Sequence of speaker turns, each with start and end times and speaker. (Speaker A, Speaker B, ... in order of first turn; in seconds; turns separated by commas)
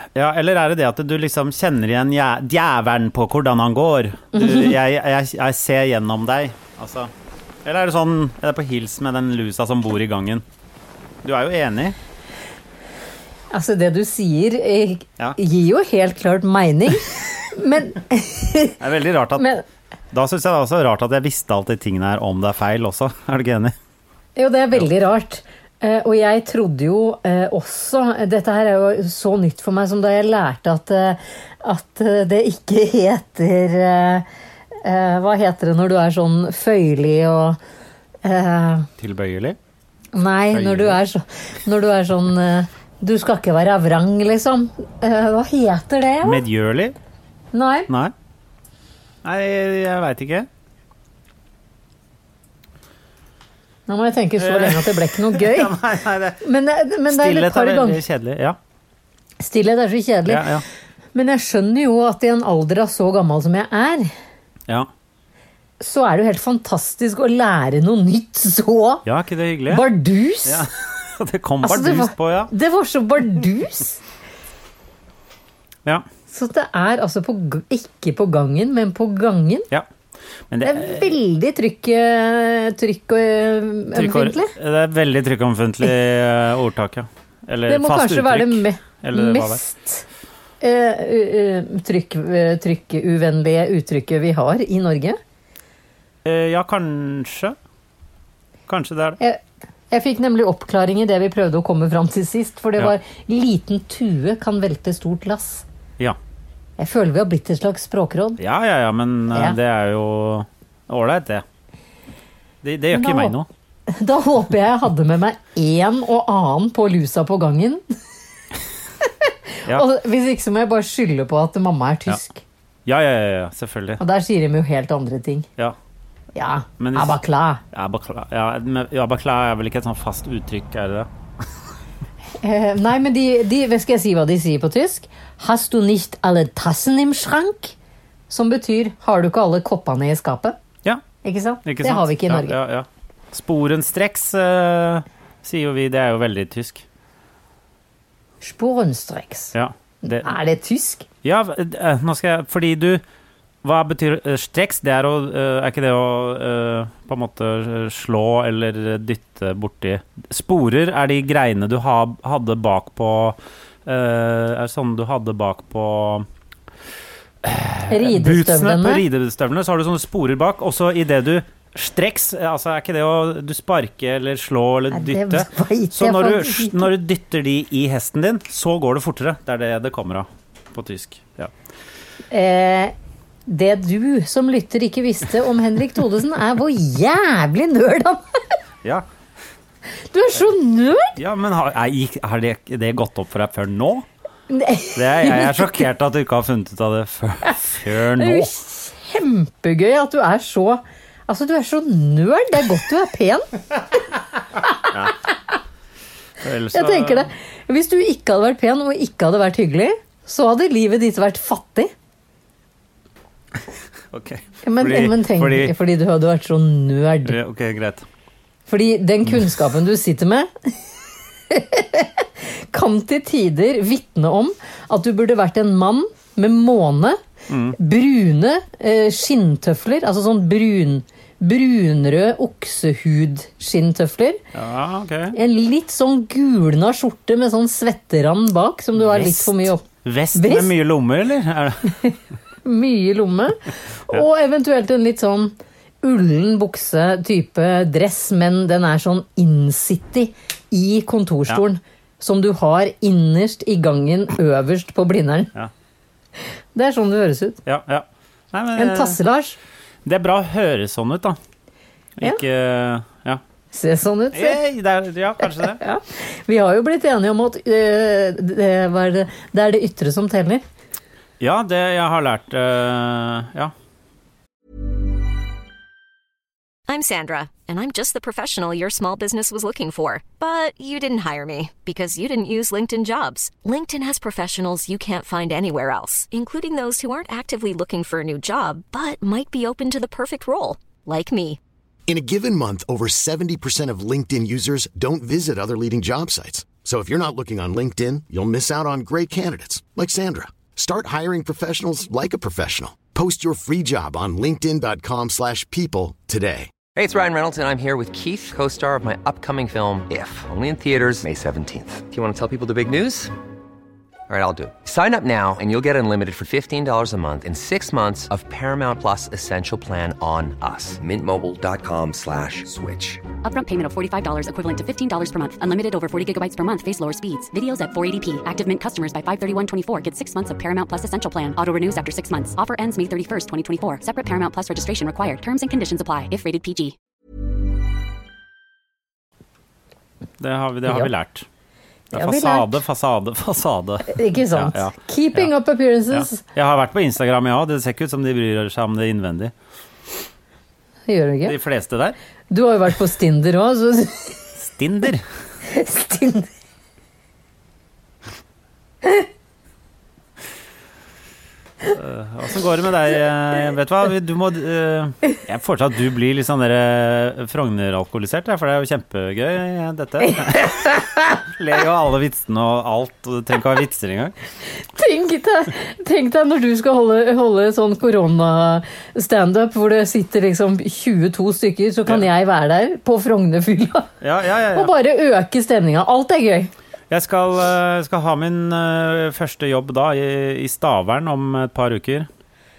Speaker A: 0.1-7.1, Speaker B: 4.3-4.7, Speaker A: 7.7-10.4, Speaker A: 11.2-12.0, Speaker B: 13.5-18.8, Speaker A: 18.8-19.5, Speaker B: 19.4-19.6, Speaker A: 20.1-23.8, Speaker B: 24.4-34.3, Speaker B: 34.8-37.6, Speaker B: 38.2-38.9, Speaker A: 39.0-39.6, Speaker B: 40.1-46.4, Speaker A: 40.5-41.0, Speaker A: 46.2-47.0, Speaker B: 47.5-47.9, Speaker A: 49.2-50.5, Speaker B: 53.9-55.7, Speaker A: 54.4-56.4, Speaker B: 56.4-58.0, Speaker A: 57.1-58.6, Speaker B: 59.4-60.5, Speaker A: 60.3-60.6, Speaker B: 61.1-64.1, Speaker B: 65.8-69.0, Speaker A: 69.1-69.8, Speaker B: 69.7-70.7, Speaker A: 70.5-72.5, Speaker B: 71.6-74.0, Speaker B: 76.3-79.7, Speaker A: 80.5-81.1, Speaker B: 80.6-84.5, Speaker A: 84.0-89.6, Speaker B: 87.7-90.0, Speaker B: 90.6-95.2, Speaker A: 96.2-97.6, Speaker A: 98.7-99.2, Speaker B: 99.2-105.7, Speaker B: 106.8-108.4, Speaker A: 108.4-111.4, Speaker B: 109.3-109.6, Speaker A: 112.6-113.5, Speaker B: 112.9-113.3, Speaker B: 113.9-117.8, Speaker B: 119.2-122.4, Speaker A: 122.9-124.0, Speaker B: 124.0-125.5, Speaker B: 126.3-127.6, Speaker A: 126.8-127.2, Speaker A: 127.7-131.1, Speaker B: 132.4-137.8, Speaker B: 138.3-140.6, Speaker B: 141.2-142.6, Speaker A: 141.7-146.8, Speaker B: 148.4-149.5, Speaker A: 149.5-150.3, Speaker B: 150.0-151.1, Speaker A: 151.2-153.0, Speaker A: 153.6-166.2, Speaker A: 167.4-181.5, Speaker B: 167.9-169.0, Speaker B: 174.9-176.9, Speaker B: 182.3-182.9, Speaker B: 183.5-188.4, Speaker B: 190.1-191.1, Speaker A: 191.2-194.1, Speaker B: 194.5-195.8, Speaker A: 194.9-198.5, Speaker B: 198.2-203.5, Speaker A: 206.4-207.3, Speaker B: 206.7-211.9, Speaker A: 214.1-215.7, Speaker B: 214.6-217.4, Speaker A: 217.2-218.1, Speaker B: 218.7-220.9, Speaker B: 221.5-227.2, Speaker A: 227.5-227.8, Speaker B: 227.8-234.4, Speaker A: 234.5-235.4, Speaker B: 235.3-240.7, Speaker A: 239.0-241.9, Speaker B: 242.7-255.5, Speaker B: 256.7-257.6, Speaker A: 257.7-259.2, Speaker B: 258.8-259.6, Speaker A: 260.1-261.4, Speaker A: 262.2-263.4, Speaker B: 263.7-264.6, Speaker A: 264.3-265.8, Speaker B: 265.4-270.6, Speaker A: 271.4-273.7, Speaker C: 276.9-291.6, Speaker D: 292.1-306.7, Speaker E: 307.0-313.3, Speaker E: 314.3-323.3, Speaker F: 323.4-336.9, Speaker A: 340.4-341.5, Speaker B: 342.1-342.7, Speaker A: 342.1-345.5, Speaker B: 344.1-346.4, Speaker A: 346.1-349.5, Speaker B: 351.1-351.6, Speaker A: 351.5-352.2, Speaker B: 352.5-354.4, Speaker A: 354.6-355.2, Speaker B: 355.7-356.5, Speaker A: 361.9-374.3, Speaker B: 374.9-384.1, Speaker A: 384.2-384.9, Speaker B: 384.7-386.7, Speaker A: 387.1-392.3